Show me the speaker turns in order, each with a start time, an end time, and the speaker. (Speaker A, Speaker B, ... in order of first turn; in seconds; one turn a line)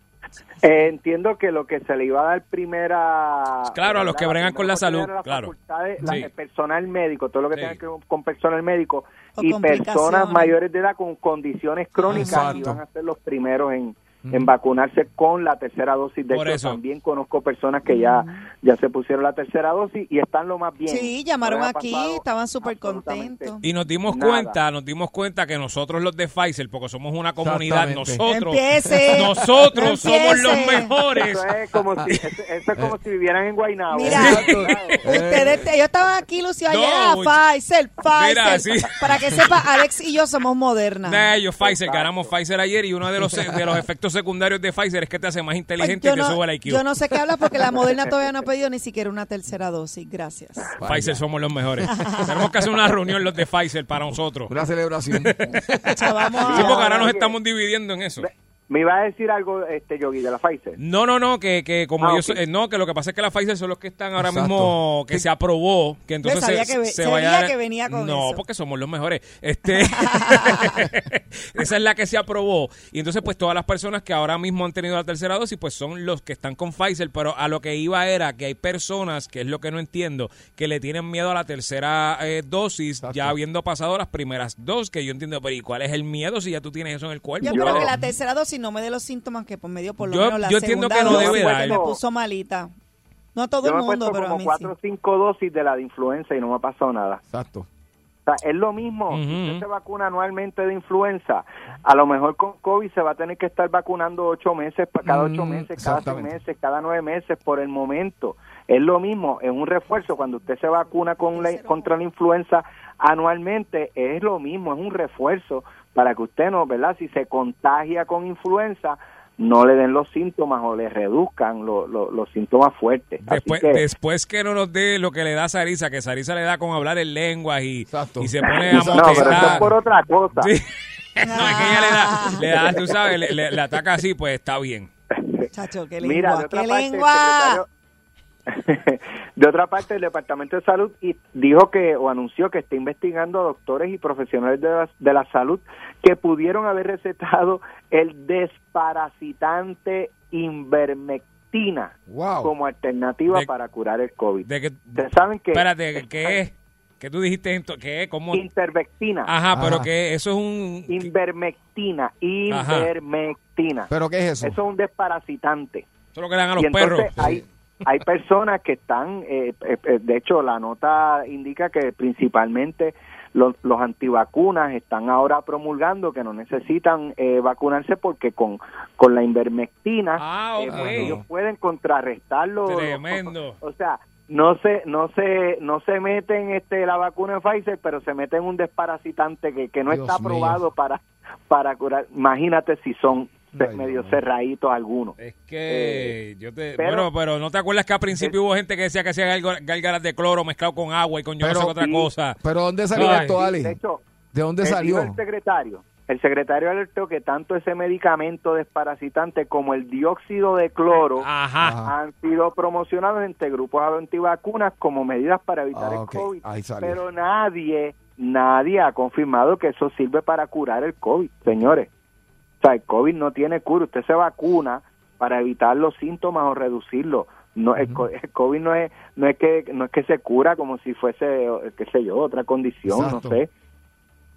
Speaker A: 0.6-23.6
Speaker B: 3.7-6.3
Speaker B: 7.5-7.8
Speaker C: 9.4-10.6
Speaker C: 12.0-12.6
Speaker D: 12.1-12.8
Speaker D: 14.2-14.5
Speaker B: 16.3-16.8
Speaker C: 17.9-18.4
Speaker C: 20.9-23.6
Speaker B: 23.6-31.5
Speaker A: 24.1-24.6
Speaker D: 27.4-28.2
Speaker C: 28.3-30.9
Speaker A: 31.1-35.0
Speaker C: 33.9-41.3
Speaker B: 34.1-35.0
Speaker D: 34.1-35.6
Speaker B: 36.7-37.4
Speaker B: 38.1-39.5
Speaker B: 41.1-46.8
Speaker A: 41.6-42.3
Speaker C: 45.8-50.7
Speaker D: 50.8-51.2
Speaker B: 50.8-54.5
Speaker C: 51.9-52.3
Speaker D: 54.5-55.6
Speaker B: 55.1-58.3
Speaker C: 56.0-57.1
Speaker A: 56.5-57.4
Speaker A: 58.2-60.8
Speaker B: 60.8-87.9
Speaker A: 62.0-62.4
Speaker D: 64.2-65.2
Speaker C: 66.2-68.4
Speaker C: 69.8-70.8
Speaker D: 83.0-83.4
Speaker C: 87.4-92.7
Speaker A: 87.5-87.8
Speaker B: 90.0-91.8
Speaker A: 91.0-92.0
Speaker C: 93.3-94.7
Speaker A: 93.6-97.2
Speaker D: 97.3-97.7
Speaker A: 98.3-123.8
Speaker B: 99.1-99.7
Speaker D: 105.0-106.4
Speaker C: 110.5-112.0
Speaker B: 123.2-129.7
Speaker D: 127.9-129.7
Speaker A: 128.5-130.5
Speaker B: 130.4-130.7
Speaker B: 131.2-134.9
Speaker C: 131.2-132.5
Speaker A: 132.5-133.1
Speaker C: 135.5-137.6
Speaker A: 136.0-137.7
Speaker A: 138.5-156.4
Speaker D: 152.1-152.5
Speaker B: 154.4-158.5
Speaker A: 158.3-159.3
Speaker B: 159.3-161.1
Speaker D: 159.5-159.9
Speaker A: 160.9-163.9
Speaker B: 162.5-162.9
Speaker D: 163.9-164.6
Speaker A: 164.4-165.9
Speaker B: 166.2-167.3
Speaker A: 166.6-195.2
Speaker D: 167.2-167.4
Speaker B: 180.2-181.2
Speaker D: 180.7-181.2
Speaker B: 182.7-183.6
Speaker D: 189.9-190.6
Speaker D: 193.5-194.2
Speaker B: 195.2-202.4
Speaker A: 195.7-196.2
Speaker A: 196.8-197.1
Speaker D: 201.4-201.8
Speaker A: 201.8-202.1
Speaker D: 202.4-203.8
Speaker B: 202.9-203.4
Speaker A: 202.9-204.0
Speaker D: 204.3-205.2
Speaker A: 204.6-211.3
Speaker B: 211.2-211.8
Speaker D: 211.6-211.9
Speaker A: 211.8-221.9
Speaker D: 215.7-217.0
Speaker A: 222.6-233.5
Speaker D: 227.8-228.0
Speaker D: 232.9-233.4